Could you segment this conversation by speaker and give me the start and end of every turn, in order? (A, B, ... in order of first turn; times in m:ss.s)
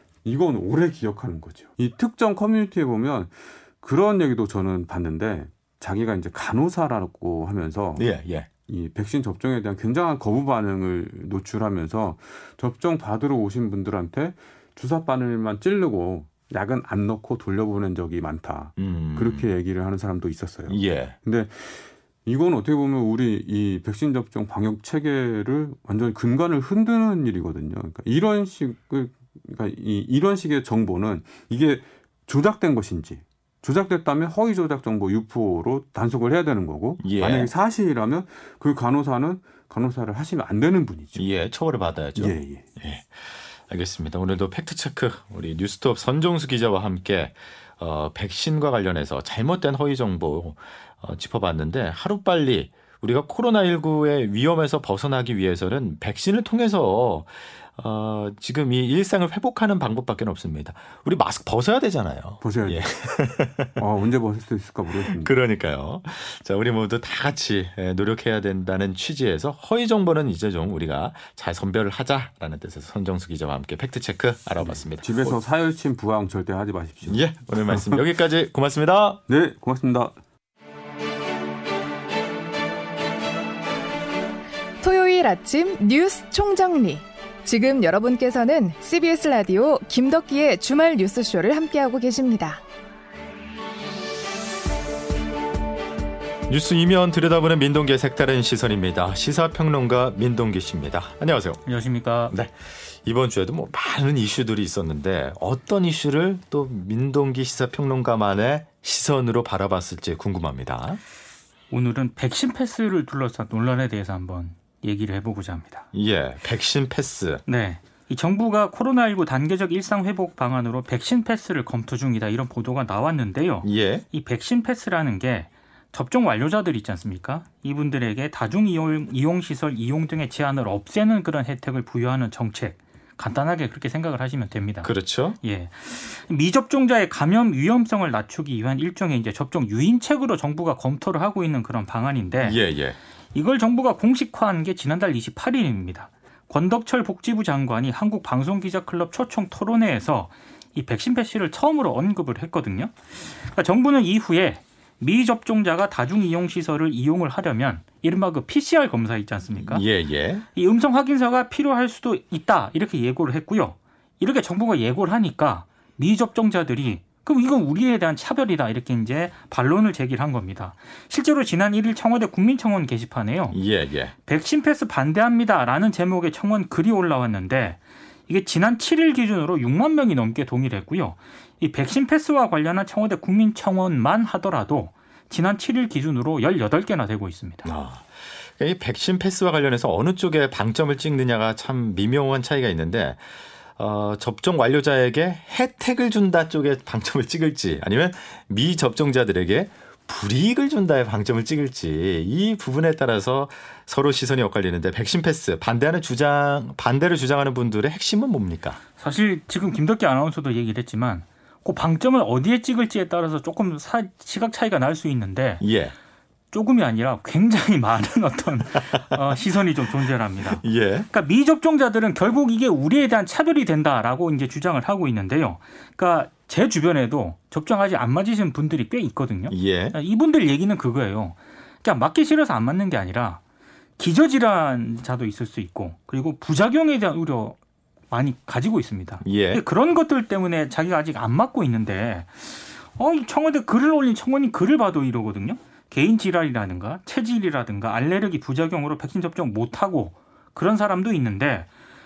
0:00.2-0:08.1 A
0:08.0-0:08.5 B
0:08.7-0:41.3 A
0:18.8-0:19.5 B
0:20.7-0:21.2 B
0:37.0-0:37.5 B
0:41.2-1:03.7 B
0:42.2-0:42.7 A
1:02.4-1:02.8 A
1:03.8-1:05.3 A
1:05.0-1:15.3 B
1:14.6-1:18.0 A
1:17.1-1:19.2 B
1:19.3-1:20.1 A
1:24.8-1:32.6 C
1:36.5-1:41.6 B
1:41.7-1:42.3 D
1:42.3-1:51.0 B
1:51.7-1:55.9 D
1:55.9-1:57.4 B
1:57.5-2:14.9 D
2:03.6-2:04.0 B
2:14.8-2:15.4 B
2:15.4-2:22.6 D
2:22.4-2:23.0 B
2:23.3-2:39.8 D
2:39.6-2:40.4 B
2:40.6-2:53.6 D
2:53.5-2:54.1 B
2:54.3-3:07.7 D
3:07.6-3:13.2 B
3:13.8-3:28.8 B
3:29.0-3:35.6 D
3:35.6-3:35.9 B
3:36.5-3:53.4 D
3:38.9-3:39.2 B
3:40.5-3:41.1 B
3:49.5-3:50.0 B
3:54.0-3:57.6 D
3:58.1-4:11.7 D
3:59.2-3:59.6 B